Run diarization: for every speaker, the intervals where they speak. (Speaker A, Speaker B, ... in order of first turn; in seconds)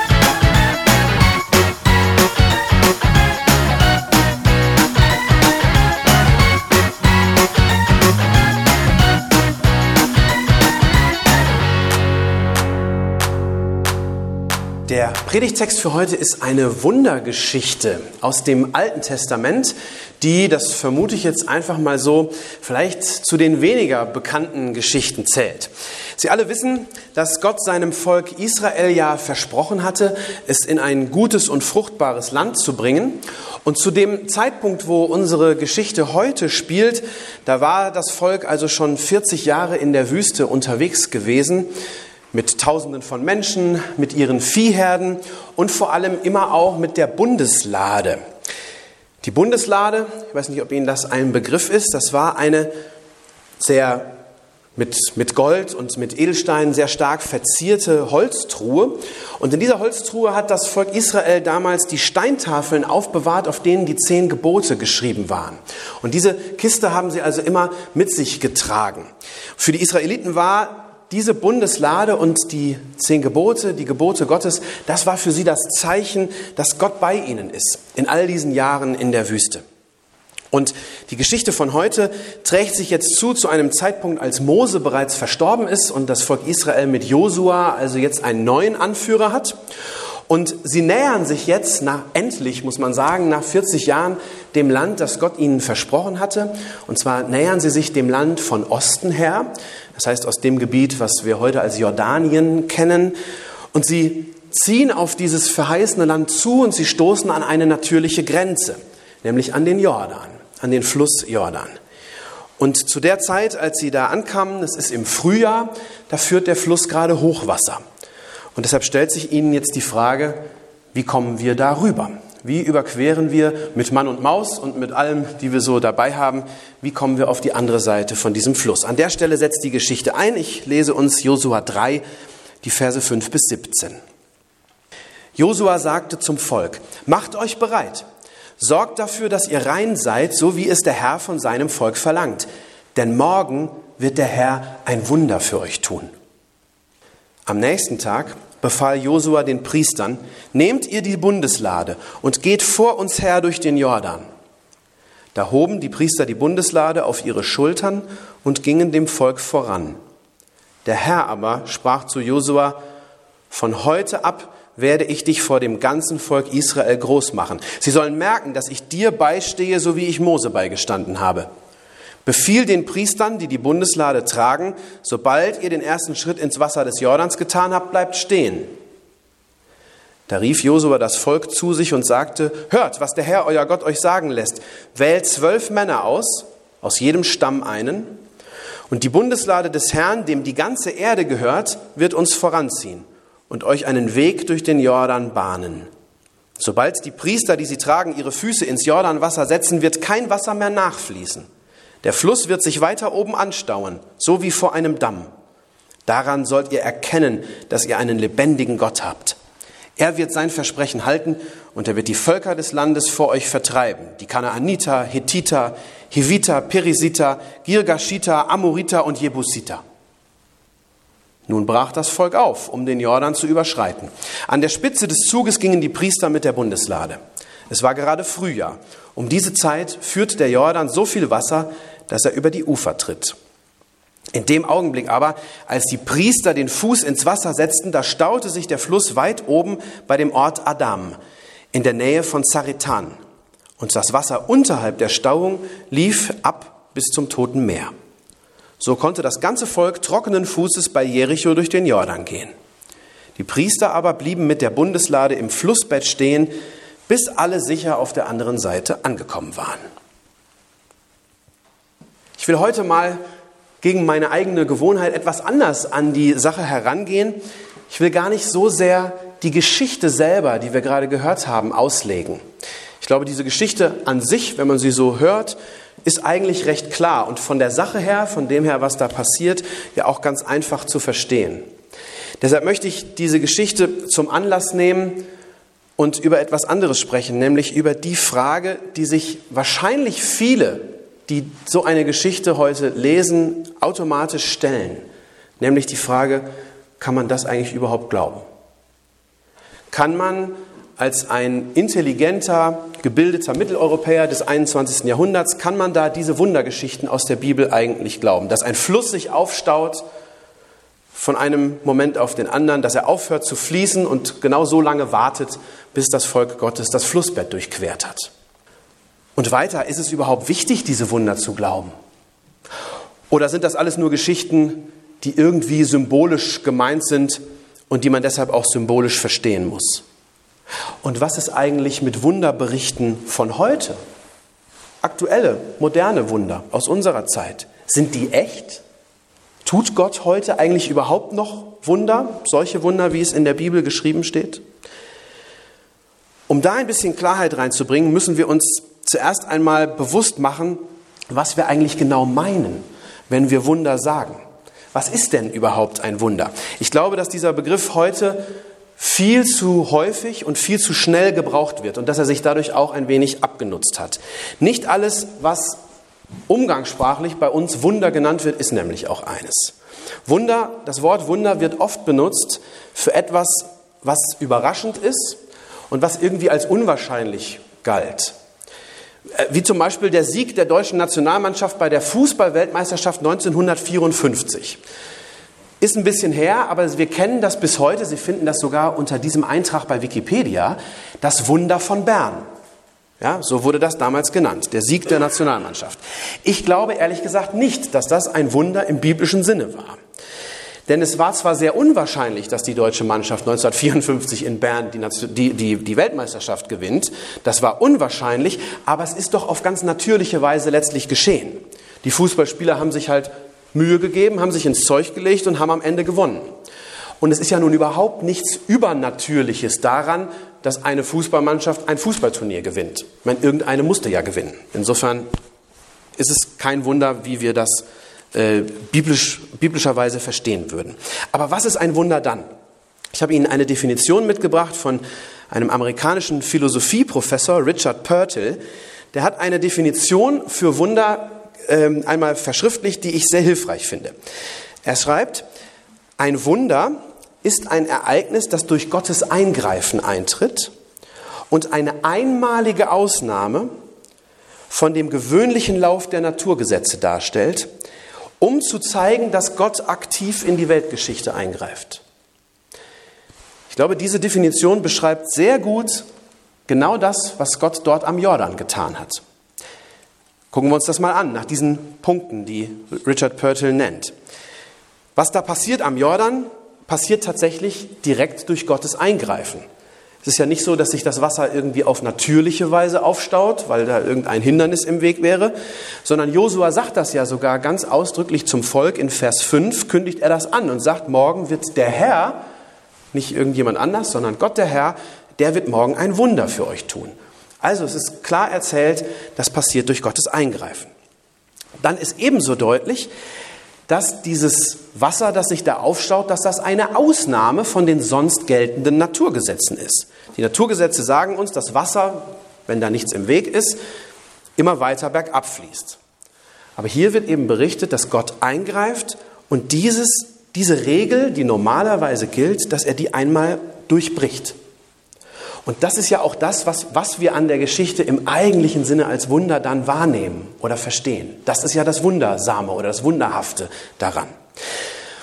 Speaker A: 14.9-41.7, 42.3-48.2, 49.2-52.7, 53.6-54.2, 54.8-79.6, 80.5-89.6, 90.3-103.2, 103.7-111.8, 112.6-117.8, 118.5-120.4, 120.9-132.0, 132.6-134.0, 135.3-138.0, 138.6-146.1, 147.4-154.2, 155.3-160.0, 160.8-162.8, 163.5-171.5, 172.2-178.7, 180.3-188.2, 188.9-195.9, 196.6-201.5, 202.0-205.3, 206.1-209.4, 210.0-219.8, 221.5-227.2, 227.7-233.3, 234.3-241.2, 241.7-243.2, 243.8-247.9, 248.8-252.5, 253.3-256.5, 257.1-259.8, 262.4-263.2, 263.8-272.4, 273.0-281.7, 282.4-285.3, 286.0-295.1, 295.6-296.5, 297.0-298.4, 299.9-310.0, 311.1-318.3, 319.4-321.9, 323.3-330.0, 331.0-334.0, 335.0-338.8, 339.6-344.6, 346.5-354.4, 354.9-358.4, 359.0-365.8, 366.5-369.7, 370.2-375.4, 375.9-378.3, 379.3-384.8, 385.8-392.4, 393.2-400.0, 400.9-416.5, 417.2-425.3, 426.2-432.5, 433.1-438.6, 439.1-444.1, 444.8-445.4, 446.2-450.7, 451.5-453.7, 454.7-457.7, 458.4-462.0, 463.7-466.1, 466.7-469.2, 470.5-474.1, 475.1-479.6, 480.2-485.5, 486.0-492.4, 493.1-500.9, 501.8-503.1, 503.9-513.8, 514.6-516.0, 516.8-524.6, 525.6-534.3